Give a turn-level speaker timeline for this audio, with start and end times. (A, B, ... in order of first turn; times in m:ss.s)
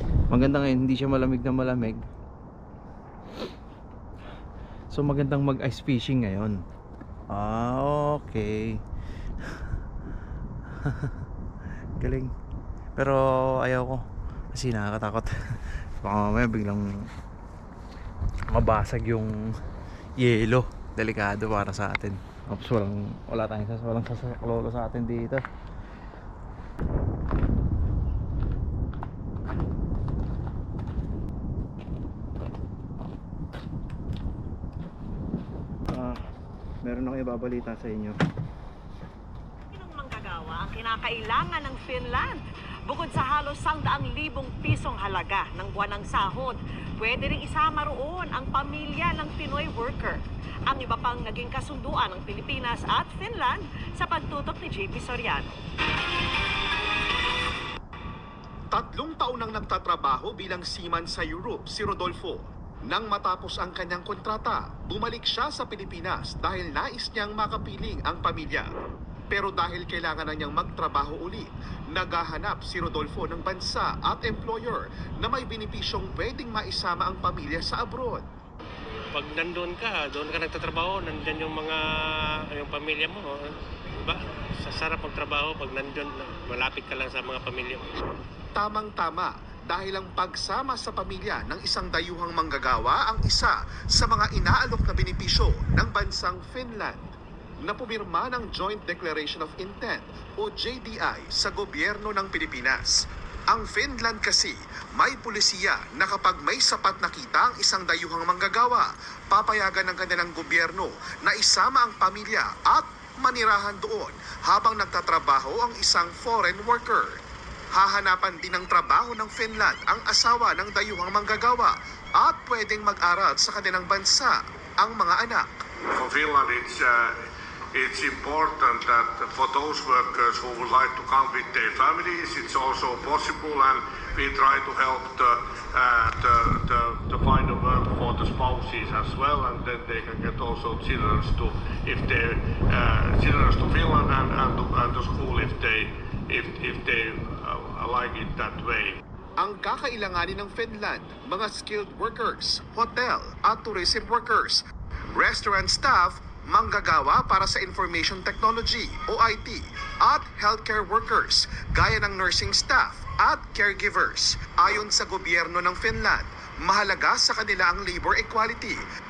0:00.3-0:02.0 A
0:04.9-0:06.6 A
0:07.3-0:08.8 A
0:10.8-0:11.2 A
0:12.0-0:12.3 A
0:13.0-0:17.1 A
0:18.5-0:19.6 A
0:20.2-0:25.4 A
0:35.9-0:36.2 A
0:36.8-0:38.2 A
0:39.7-0:55.6 B
0:58.7-1:08.7 C
1:09.3-1:18.2 C
1:19.1-1:23.4 D
1:24.0-1:27.8 D
1:28.6-1:37.1 C
1:37.6-1:57.2 C
1:57.7-2:05.5 C
2:05.9-2:07.2 E
2:07.7-2:29.0 E
2:29.4-2:34.6 C
2:35.1-2:48.8 C